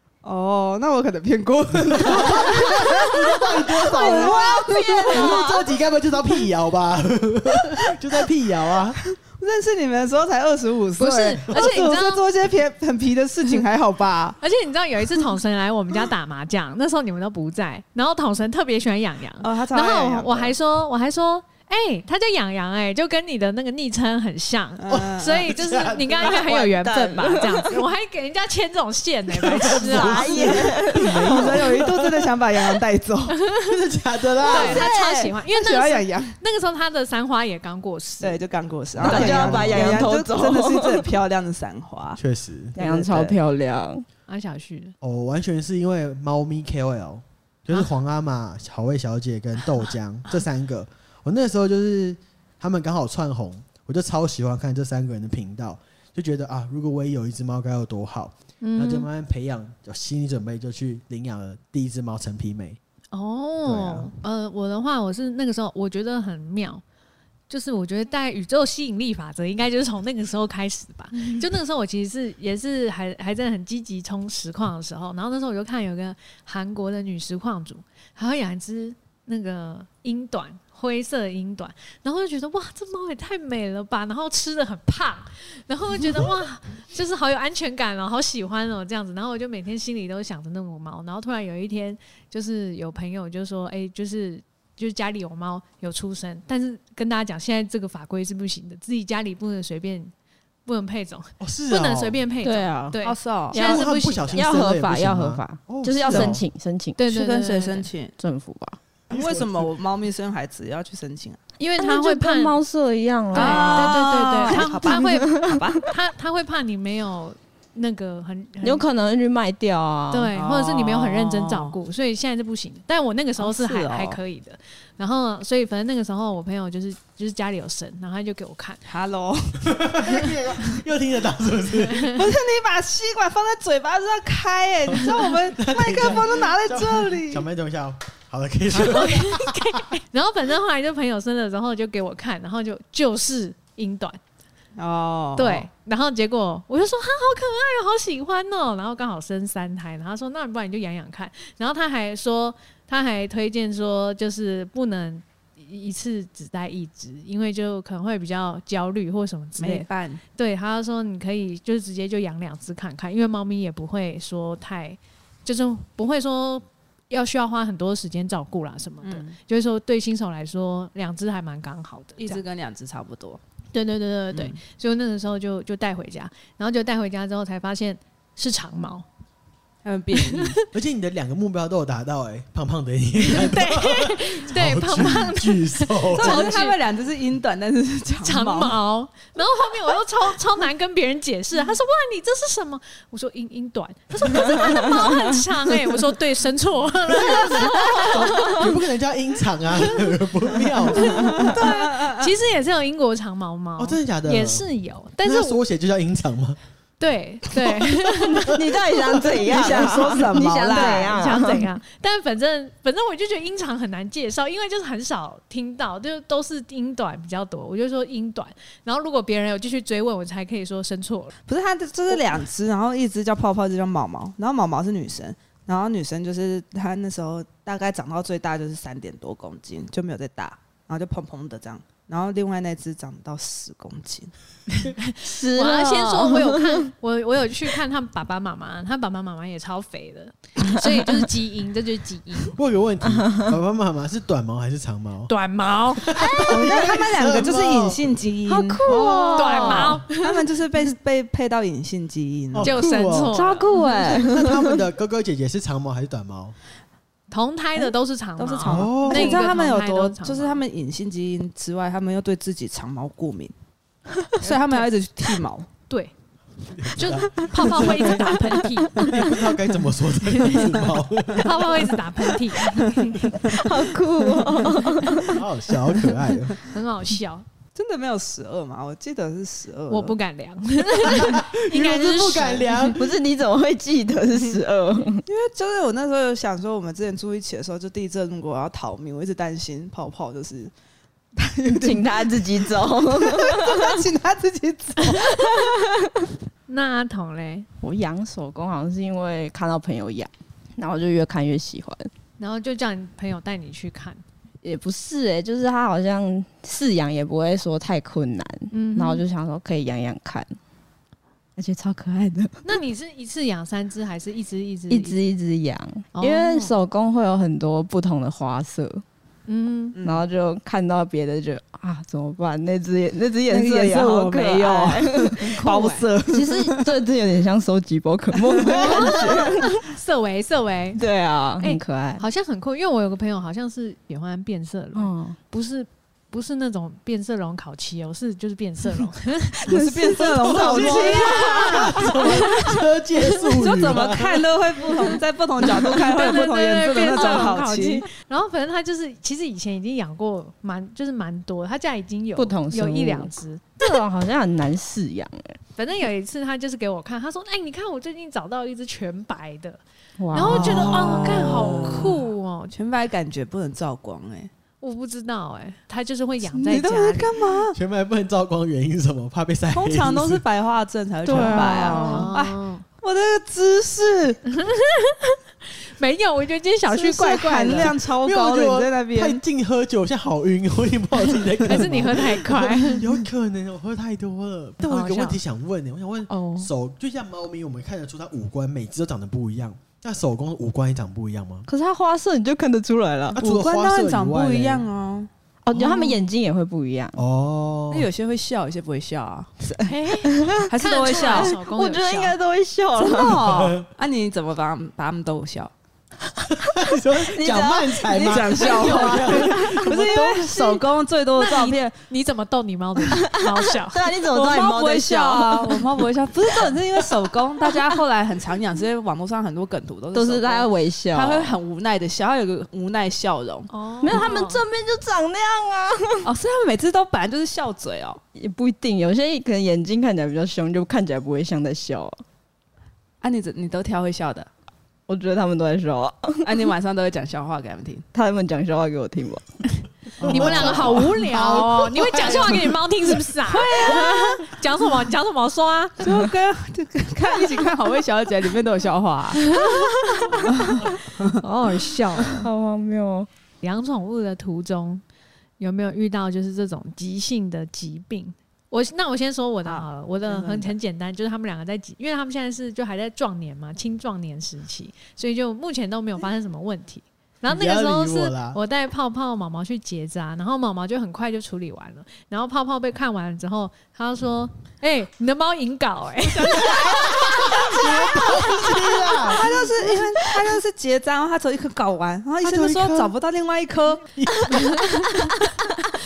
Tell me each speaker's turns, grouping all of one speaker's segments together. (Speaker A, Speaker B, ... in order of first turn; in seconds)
Speaker A: 0.2-5.4, 9.2-14.4, 19.4-20.5, 24.8-25.4, 30.4-33.4, 34.6-36.4, 38.2-42.2, 42.8-43.3, 103.0-103.5, 106.0-106.4, 107.1-108.1, 109.1-111.4, 113.3-115.8, 120.3-121.7, 123.4-124.2, 128.8-129.8, 132.1-137.4, 144.8-145.7, 159.6-160.2, 169.0-169.4, 172.2-173.4, 179.8-180.6, 186.1-188.7, 201.1-202.3, 209.3-211.2, 221.5-234.3, 246.5-252.7, 253.7-254.2, 258.4-263.5, 264.4-265.7, 273.4-273.7, 277.7-280.1, 285.2-290.7, 291.4-295.6, 319.9-320.2, 323.5-326.9, 328.3-329.6, 339.6-342.1, 343.6-348.1, 360.5-362.1, 362.7-364.5, 366.5-367.8, 369.7-374.4, 376.9-379.4, 393.4-395.3, 397.9-399.9, 400.7-401.5, 402.9-405.7, 408.2-411.9, 414.3-424.3, 426.2-428.2, 433.2-434.5, 436.4-438.1, 440.4-440.8, 443.4-444.2, 446.0-449.5, 450.4-451.4, 459.6-460.7, 476.2-478.7, 479.2-484.1
Speaker B: 1.8-9.0, 24.9-26.4, 29.3-32.3, 33.6-34.8, 39.0-40.1, 42.2-42.8, 45.0-62.8, 63.6-64.1, 101.4-102.2, 103.5-106.4, 109.1-109.7, 129.6-132.2, 134.9-139.8, 180.7-186.6, 197.0-201.6, 203.8-204.7, 205.2-206.6, 242.5-245.3, 245.9-248.0, 252.5-256.5, 258.6-259.4, 266.7-268.4, 268.9-271.8, 275.2-276.6, 281.0-283.0, 340.4-344.5, 360.5-361.6, 367.7-370.4, 371.3-372.0, 378.2-391.7, 393.4-394.9, 395.7-396.1, 397.1-398.1, 403.5-403.9, 406.6-410.7, 440.2-443.1, 467.5-468.6, 477.2-479.9, 482.4-483.1, 484.2-485.0
Speaker C: 3.8-5.7, 26.2-27.8, 29.6-31.6, 34.5-35.3, 39.0-41.0, 42.8-44.0, 102.4-103.0, 103.5-107.0, 108.2-108.8, 111.8-115.8, 118.6-120.3, 208.4-211.7, 235.2-236.9, 246.2-247.0, 248.5-250.0, 253.3-254.8, 273.5-275.4, 282.9-285.2, 291.7-294.0, 295.1-295.9, 297.8-302.1, 304.6-310.6, 311.6-312.6, 314.9-319.0, 320.0-325.7, 326.3-329.8, 330.9-332.2, 334.9-335.4, 339.6-342.0, 347.2-347.4, 352.4-355.6, 360.2-362.0, 371.2-372.3, 386.3-386.7, 391.7-393.4, 395.6-397.2, 400.3-403.4, 406.8-409.9, 413.1-415.9, 416.7-417.0, 420.1-421.5, 424.0-426.3, 428.4-432.2, 435.1-436.5, 438.1-439.6, 440.3-440.8, 443.9-444.3, 449.6-450.9, 451.4-453.3
Speaker D: 11.0-12.2, 14.4-30.5, 34.5-38.4, 44.3-44.9, 58.6-59.1, 63.1-66.8, 67.5-100.1, 100.7-104.4, 107.0-107.9, 111.6-112.6, 113.3-118.8, 120.1-128.8, 131.9-132.2, 138.8-144.2, 145.3-172.4, 173.7-179.0, 180.1-180.6, 183.2-186.8, 188.2-198.6, 200.9-205.6, 207.0-208.6, 210.7-221.3, 234.7-242.6, 245.3-246.2, 249.4-250.3, 252.6-253.7, 257.3-260.6, 264.4-264.9, 266.9-269.3, 271.4-273.6, 276.7-277.4, 279.9-283.0, 296.7-297.7, 302.4-304.2, 308.7-309.2, 312.6-315.2, 316.1-316.7, 319.5-319.9, 325.6-326.0, 328.8-331.0, 331.6-339.6, 340.9-343.2, 345.9-353.9, 355.8-359.8, 360.3-362.7, 364.8-367.4, 371.3-372.8, 374.5-375.4, 375.9-377.9, 381.7-383.0, 384.8-385.4, 395.9-396.1, 399.8-402.4, 411.4-414.1, 423.7-424.6, 440.3-446.0, 449.4-450.5, 451.4-452.4, 453.6-455.0, 455.6-479.1, 484.6-485.4